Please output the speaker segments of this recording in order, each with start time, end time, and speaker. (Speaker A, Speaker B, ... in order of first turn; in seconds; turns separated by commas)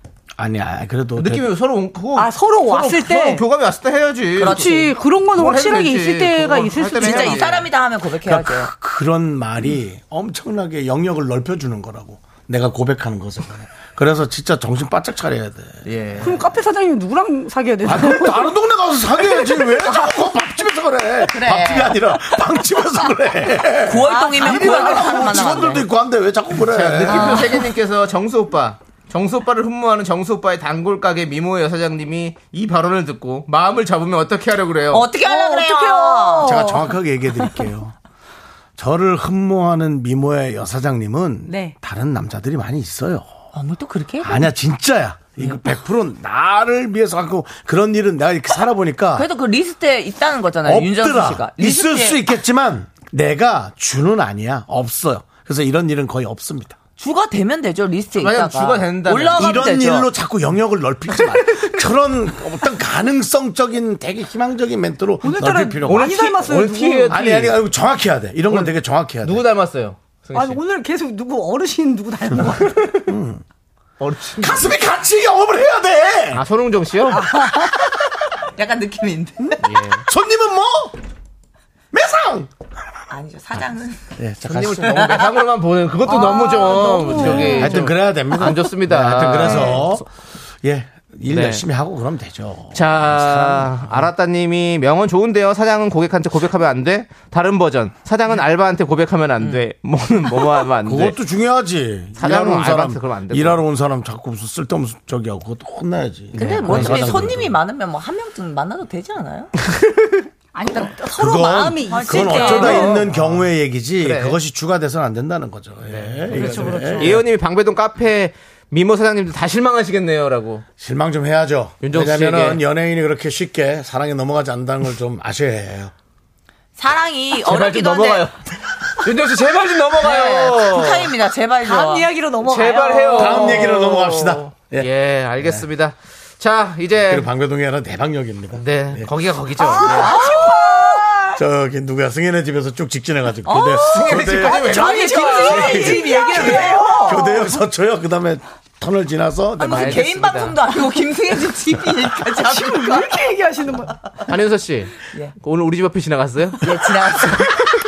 Speaker A: 0.4-1.4, Speaker B: 1.2-4.7, Speaker C: 2.2-3.4, Speaker D: 4.4-5.0, Speaker C: 4.4-7.6, Speaker B: 5.3-7.7, Speaker D: 7.0-8.7, Speaker A: 8.2-15.8, Speaker B: 15.8-16.4, Speaker C: 16.2-18.5, Speaker A: 17.9-27.4, Speaker C: 19.2-20.3, Speaker D: 21.3-22.2, Speaker D: 23.8-25.9, Speaker C: 24.1-25.1, Speaker B: 26.7-35.1, Speaker C: 27.1-27.6, Speaker D: 34.9-36.5, Speaker C: 35.2-36.9, Speaker A: 36.4-38.0, Speaker A: 38.8-43.3, Speaker C: 41.5-41.7, Speaker D: 43.5-44.5, Speaker A: 44.2-49.3, Speaker D: 49.1-52.3, Speaker A: 50.6-56.8, Speaker D: 57.0-60.1, Speaker B: 58.2-59.6, Speaker A: 59.4-66.2, Speaker C: 65.2-67.4, Speaker B: 65.8-67.5, Speaker A: 67.1-69.4, Speaker B: 68.5-70.6, Speaker C: 70.3-73.1, Speaker A: 73.1-73.4, Speaker B: 74.0-74.7, Speaker A: 74.4-76.4, Speaker B: 76.3-77.3, Speaker C: 77.1-77.8, Speaker D: 78.5-79.8, Speaker B: 79.6-80.0, Speaker A: 80.1-81.0, Speaker A: 81.9-82.5, Speaker D: 83.1-84.1, Speaker A: 84.2-85.2, Speaker B: 84.5-90.0, Speaker D: 85.0-85.3, Speaker C: 86.1-87.9, Speaker A: 87.6-90.1, Speaker C: 89.4-89.7, Speaker A: 90.6-94.1, Speaker B: 91.3-91.6, Speaker B: 92.7-101.2, Speaker A: 100.8-107.5, Speaker B: 102.2-103.6, Speaker B: 106.3-107.3, Speaker D: 106.4-109.5, Speaker C: 110.5-113.0, Speaker A: 111.1-117.2, Speaker D: 111.8-113.0, Speaker B: 112.4-113.5, Speaker B: 114.0-114.4, Speaker B: 115.9-120.6, Speaker C: 116.3-117.2, Speaker A: 120.8-125.9, Speaker B: 121.8-122.6, Speaker D: 126.8-128.3, Speaker B: 127.4-128.3, Speaker B: 129.0-131.1, Speaker D: 130.0-132.1, Speaker C: 131.6-133.7, Speaker B: 132.4-137.3, Speaker A: 133.2-135.7, Speaker A: 137.0-139.1, Speaker B: 138.5-140.2, Speaker C: 139.6-141.3, Speaker D: 139.9-141.1, Speaker A: 141.4-144.7, Speaker D: 143.4-147.2, Speaker B: 143.8-146.1, Speaker C: 144.3-147.6, Speaker A: 145.6-150.1, Speaker D: 149.6-153.2, Speaker B: 149.6-150.6, Speaker C: 152.3-153.9, Speaker B: 154.3-156.7, Speaker D: 156.6-157.6